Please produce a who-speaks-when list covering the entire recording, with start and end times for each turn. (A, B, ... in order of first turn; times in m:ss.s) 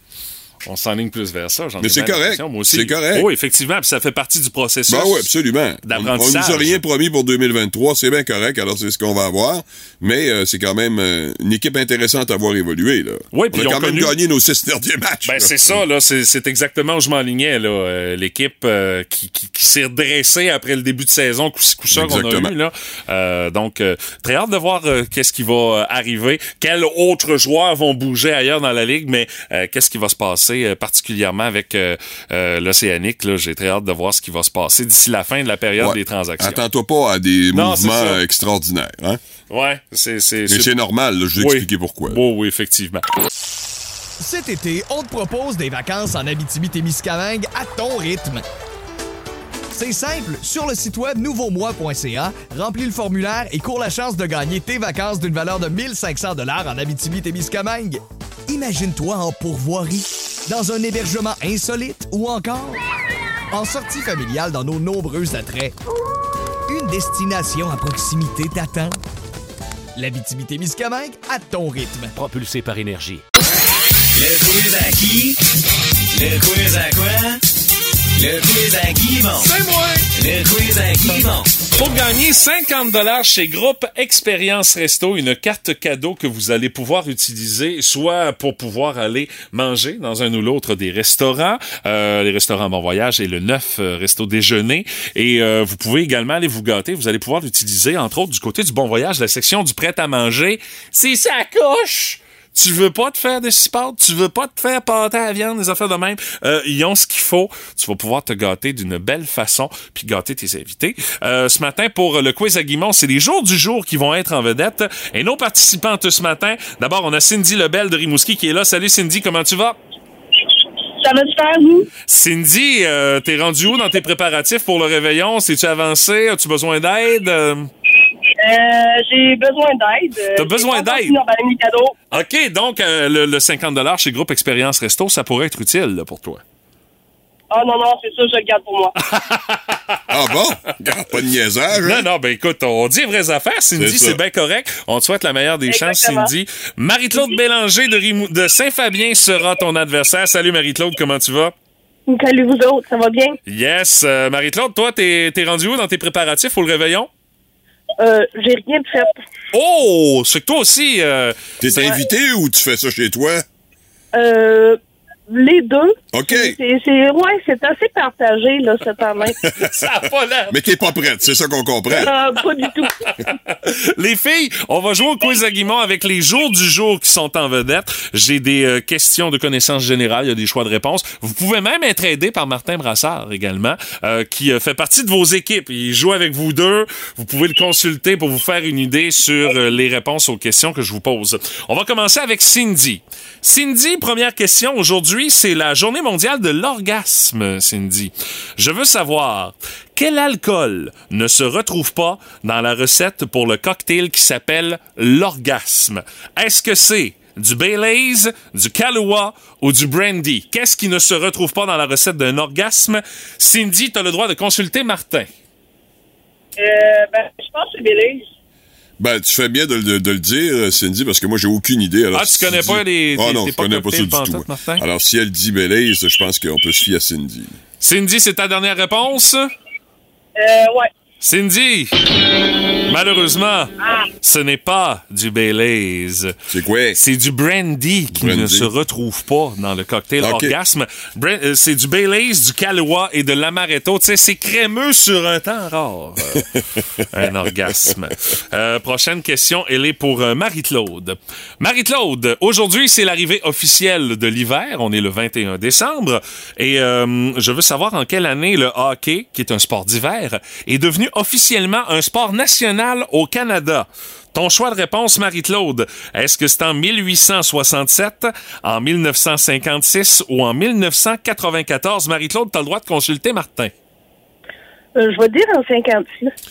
0:00.7-0:05.3 A
0:01.8-0:03.3 B
0:04.9-0:15.8 B
0:05.8-0:06.8 A
0:13.3-0:14.2 A
0:15.3-0:36.6 A
0:21.9-0:22.5 B
0:35.8-0:39.2 B
0:37.5-0:38.2 A
0:39.5-0:40.7 A
0:40.5-0:42.2 B
0:41.4-0:43.0 A
0:44.2-0:48.4 C
0:49.7-1:02.8 C
1:03.5-1:05.8 C
1:06.7-1:09.0 C
1:10.0-1:12.1 C
1:12.2-1:13.2 D
1:14.1-1:15.4 D
1:16.1-1:17.4 D
1:18.2-1:19.5 D
1:19.4-1:20.1 A
1:20.2-1:21.7 D
1:21.7-1:59.8 A
2:01.0-2:01.9 E
2:02.1-2:07.7 A
2:08.4-2:12.0 E
2:10.4-2:11.2 A
2:12.1-2:16.4 A
2:17.5-2:18.9 E
2:19.0-2:20.0 A
2:20.1-2:22.1 B
2:21.7-2:31.5 A
2:23.8-2:24.2 B
2:25.7-2:26.3 E
2:32.1-2:33.4 E
2:33.5-2:37.1 A
2:38.0-2:39.2 E
2:39.5-2:41.9 A
2:41.6-2:43.4 B
2:44.2-2:49.4 E
2:46.1-2:46.6 B
2:49.5-2:50.7 A
2:50.5-2:52.1 B
2:52.0-2:53.3 E
2:53.5-3:35.3 A
3:36.6-3:38.2 E
3:39.0-3:47.6 B
3:42.2-3:44.8 A
3:47.8-3:49.5 A
3:50.4-3:50.9 E
3:51.2-3:51.9 A
3:52.9-3:56.3 A
3:53.8-3:54.1 E
3:56.5-3:57.0 B
3:57.0-4:06.5 A
3:58.1-3:58.7 B
4:00.2-4:00.5 B
4:07.1-4:33.7 A
4:35.0-4:36.3 E